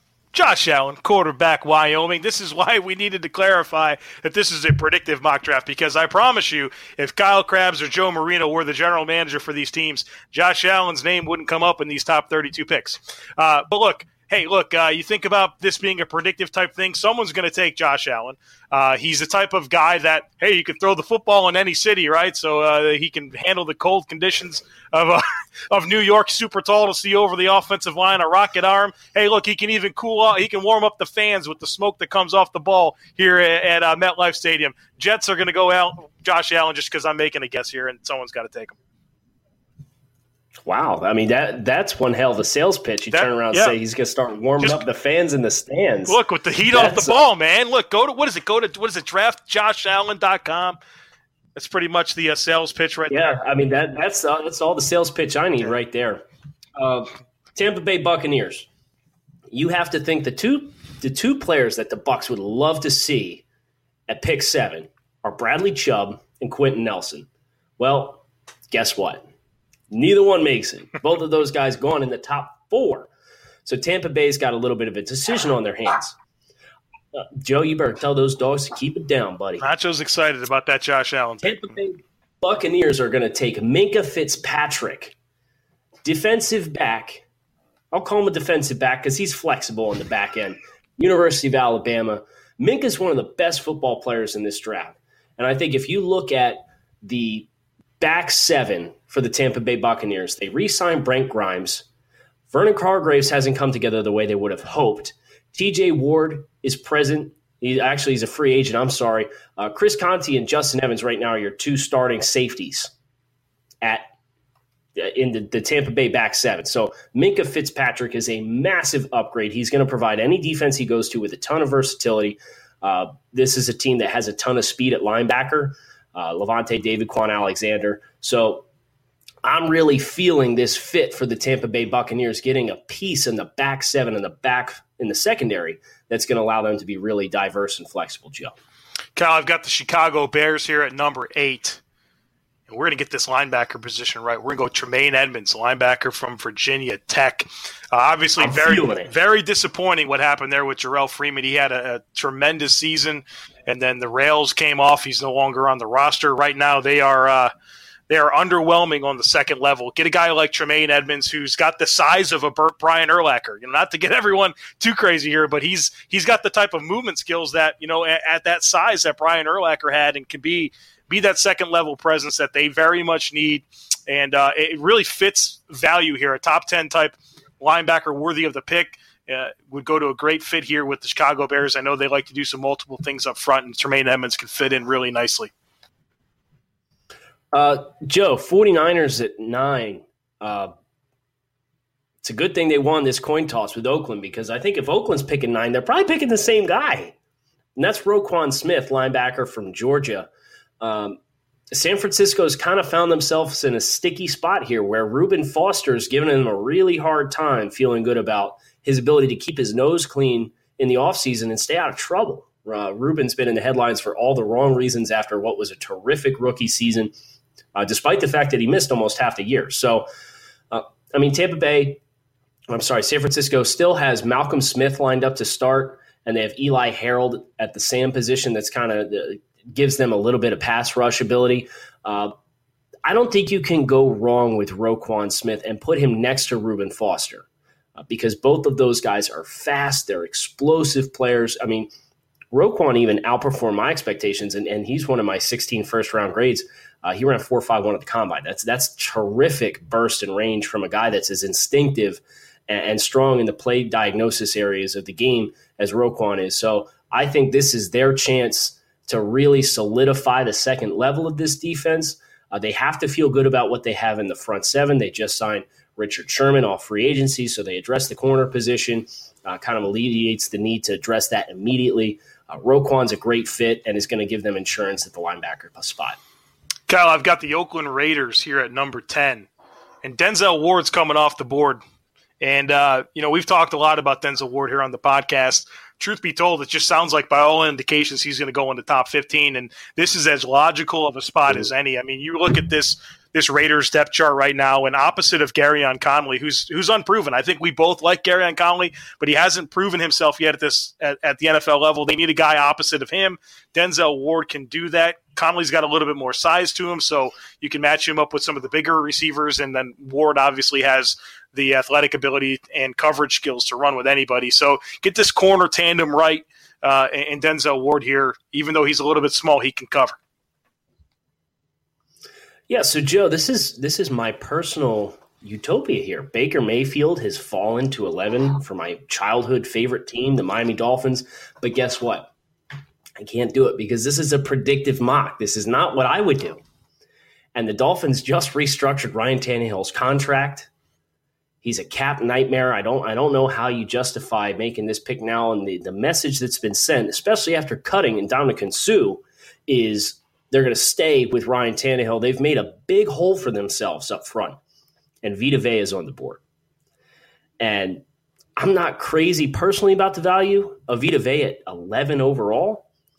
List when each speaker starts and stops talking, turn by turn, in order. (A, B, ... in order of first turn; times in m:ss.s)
0:00.3-0:38.8 A
0:40.6-0:46.2 B
0:43.1-0:43.8 A
0:46.0-0:50.8 A
0:46.7-0:47.2 B
0:51.6-0:53.4 A
0:53.1-0:56.2 B
0:56.8-0:58.7 B
0:59.5-1:03.4 B
1:04.1-1:07.3 B
1:07.8-1:09.2 B
1:09.9-1:13.1 B
1:13.6-1:16.2 B
1:17.1-1:19.6 B
1:19.6-1:21.7 A
1:21.4-1:25.1 B
1:26.0-1:27.2 B
1:27.9-1:37.5 B
1:38.0-1:41.9 B
1:42.5-1:52.9 B
1:53.8-1:54.1 B
1:55.0-2:08.6 B
2:09.4-2:18.5 B
2:19.2-2:21.8 A
2:22.7-2:37.5 A
2:28.4-2:29.1 B
2:38.1-3:05.5 A
3:07.5-3:10.7 B
3:12.2-3:17.1 B
3:17.8-3:20.3 B
3:20.8-3:21.2 B
3:21.7-3:37.1 B
3:37.8-3:40.1 B
3:40.7-3:42.0 B
3:42.7-3:52.3 B
3:53.0-3:57.4 B
3:58.0-4:01.9 B
4:02.5-4:36.2 B
4:36.9-4:39.5 A
4:40.0-4:41.8 A
4:42.4-5:20.2 A
5:22.7-5:32.3 B
5:33.2-5:36.6 B
5:37.5-5:40.7 B
5:41.6-5:54.6 B
5:55.2-5:56.4 B
5:57.6-5:58.0 B
5:58.6-6:02.9 B